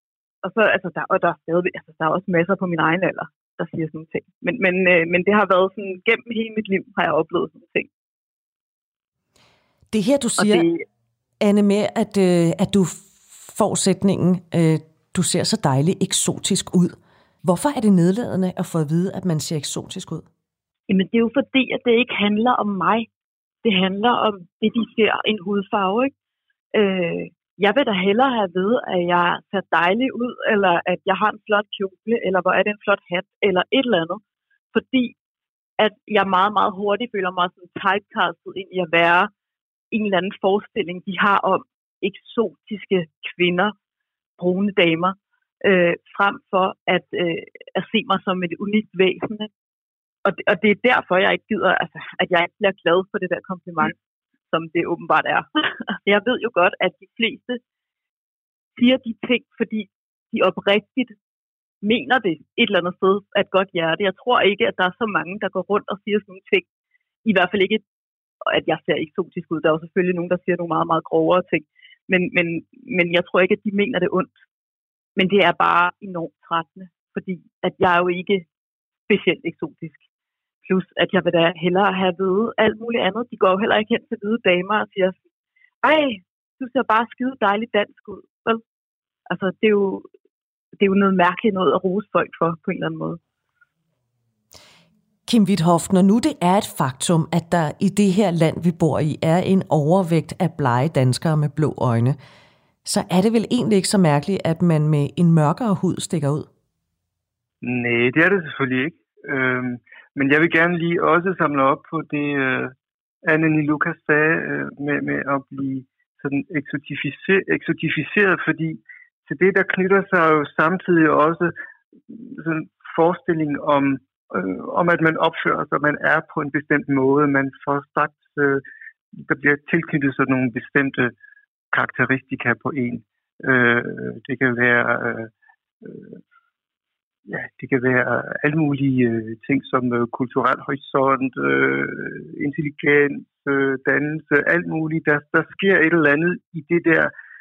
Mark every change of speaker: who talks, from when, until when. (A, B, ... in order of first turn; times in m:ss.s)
0:00.4-0:07.9 A
0:09.9-0:10.7 B
0:10.4-0:10.8 A
0:11.4-0:20.2 B
0:20.9-0:23.1 A
0:23.6-0:26.1 A
0:26.7-0:34.2 A
0:34.7-0:35.2 A
0:35.8-0:39.3 A
0:39.9-0:43.7 A
0:44.4-0:49.5 A
0:50.2-0:54.0 A
0:54.5-0:55.4 A
0:56.0-0:57.6 A
0:58.8-1:01.2 A
1:01.8-1:06.7 A
1:07.2-1:07.8 A
1:08.4-1:14.3 A
1:15.2-1:18.4 A
1:19.1-1:20.0 A
1:20.7-1:25.2 A
1:25.8-1:28.6 A
1:29.3-1:30.1 A
1:30.8-1:33.2 A
1:35.3-1:42.2 B
1:42.8-1:46.5 B
1:47.6-2:01.5 C
2:02.1-2:08.6 C
2:09.2-2:11.1 C
2:11.7-2:15.3 C
2:15.8-2:16.2 C
2:17.3-2:27.1 C